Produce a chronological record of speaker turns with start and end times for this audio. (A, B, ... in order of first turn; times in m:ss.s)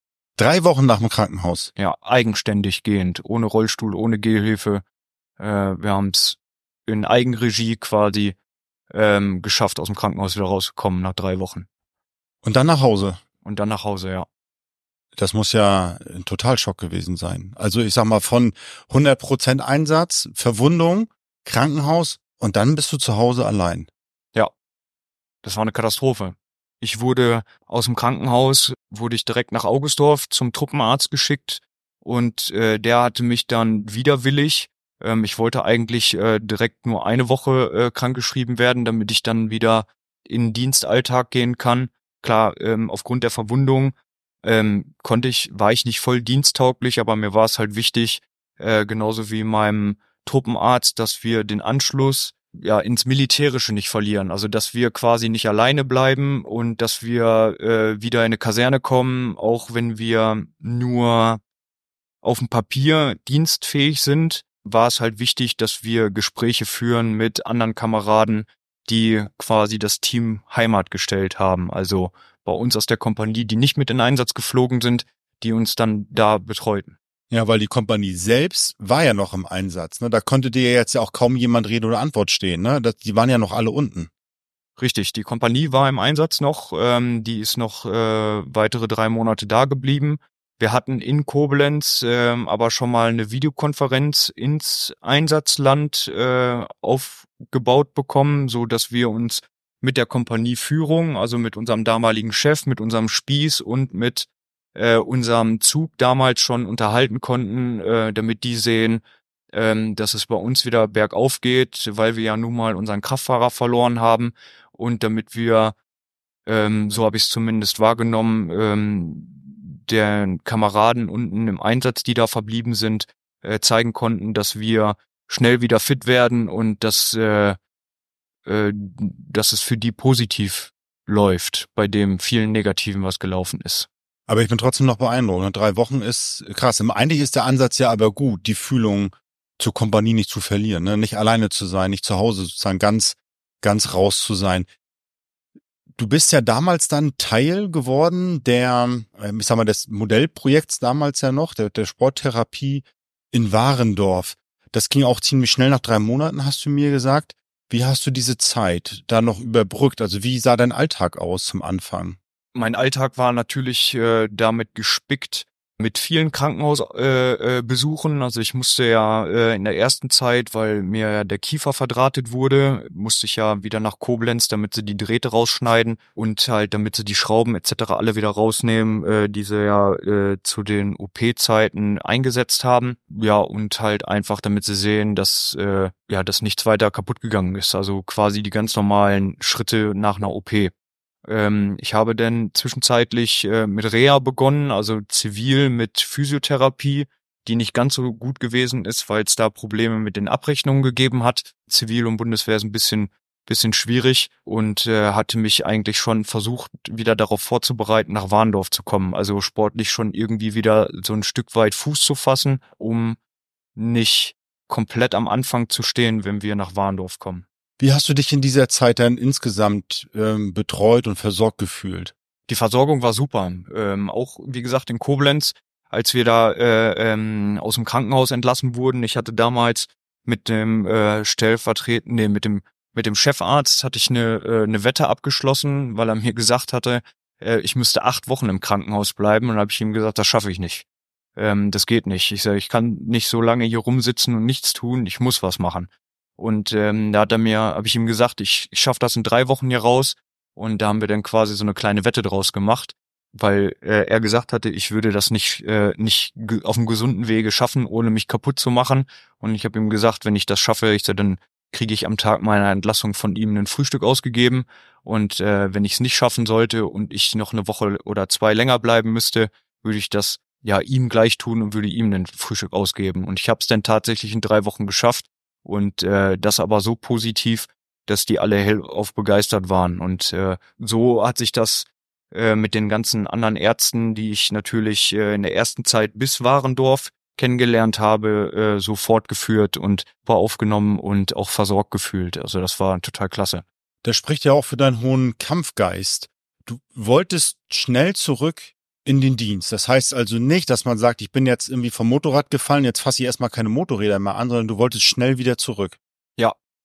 0:00.4-0:01.7 A
0:01.8-0:04.8 B
0:05.4-0:08.4 B
0:08.9-0:11.7 B
0:12.4-0:13.2 A
0:13.4-0:14.2 B
0:15.2-0:23.9 A
0:25.4-1:01.4 B
1:02.2-1:17.0 B
1:17.3-1:24.1 A
1:24.8-1:55.7 B
1:56.4-2:07.6 B
2:08.4-2:13.9 B
2:14.3-2:24.7 A
2:26.0-2:42.2 A
2:42.5-3:10.7 B
3:11.2-3:33.2 B
3:33.8-3:37.4 B
3:37.8-3:42.1 A
3:42.5-4:00.8 B
4:01.4-4:53.6 B
4:54.0-5:06.0 A